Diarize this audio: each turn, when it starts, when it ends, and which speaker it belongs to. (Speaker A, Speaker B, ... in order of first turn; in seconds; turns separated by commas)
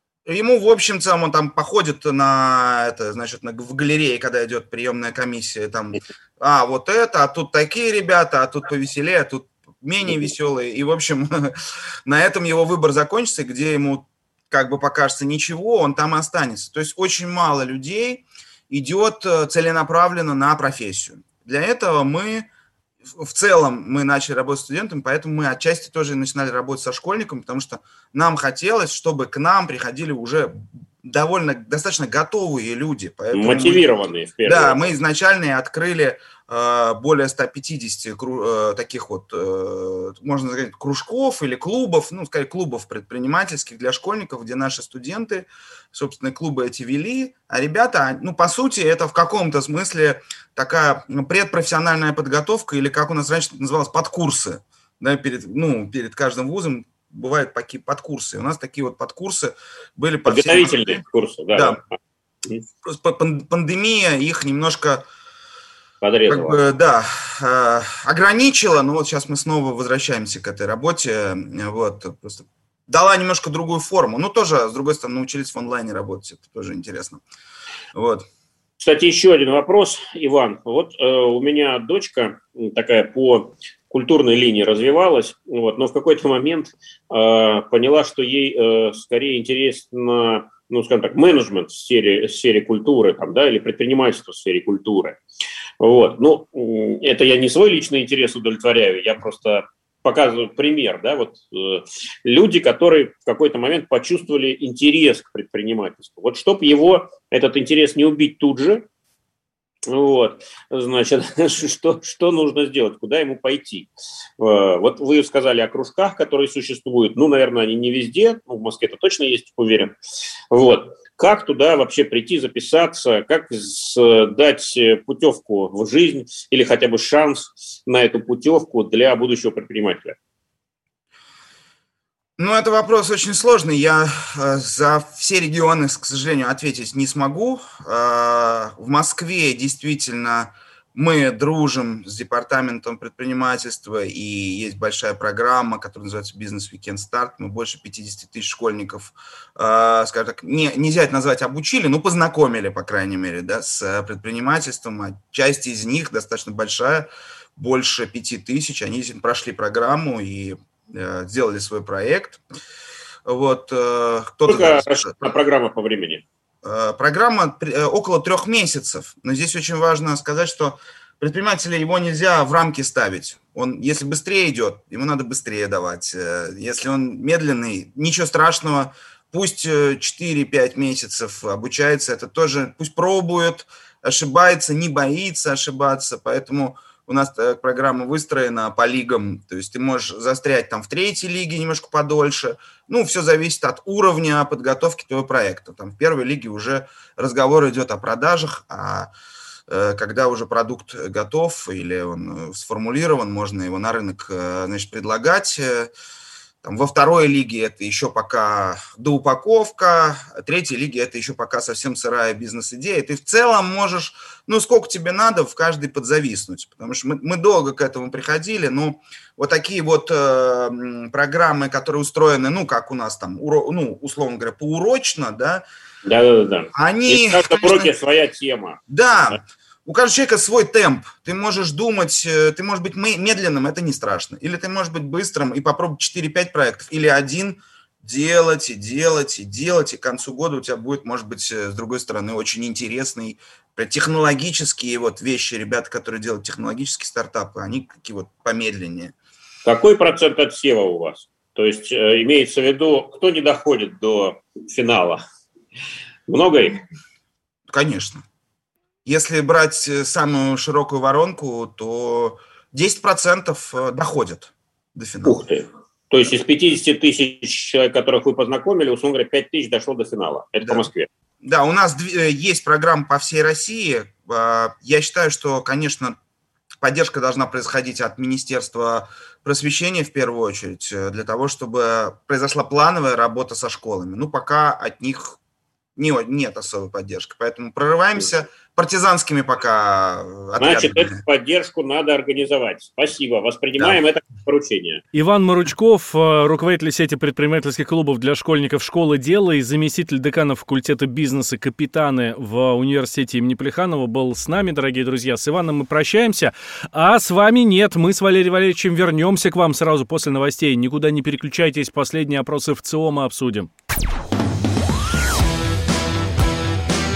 Speaker A: 0.2-22.5, Speaker A: 23.1-33.8, Speaker B: 33.3-34.8, Speaker A: 34.4-61.0, Speaker B: 60.3-62.6, Speaker A: 61.5-61.8, Speaker A: 62.8-65.0, Speaker B: 66.0-66.6, Speaker A: 66.3-77.2, Speaker A: 77.9-78.2, Speaker B: 78.8-95.2, Speaker B: 95.8-108.8, Speaker B: 109.9-119.9, Speaker B: 120.5-130.2, Speaker A: 132.4-162.4, Speaker A: 163.2-165.1, Speaker B: 164.4-166.2, Speaker A: 166.6-199.1, Speaker A: 199.7-205.9, Speaker A: 206.6-225.6, Speaker B: 226.0-229.4, Speaker A: 226.7-227.9, Speaker A: 228.9-249.1, Speaker B: 249.6-255.2, Speaker B: 256.3-256.8, Speaker A: 257.7-258.2, Speaker A: 259.0-265.4, Speaker B: 265.2-271.1, Speaker A: 270.6-270.9, Speaker A: 271.4-276.2, Speaker A: 276.8-285.4, Speaker A: 285.9-291.2, Speaker B: 290.6-295.0, Speaker C: 295.1-313.7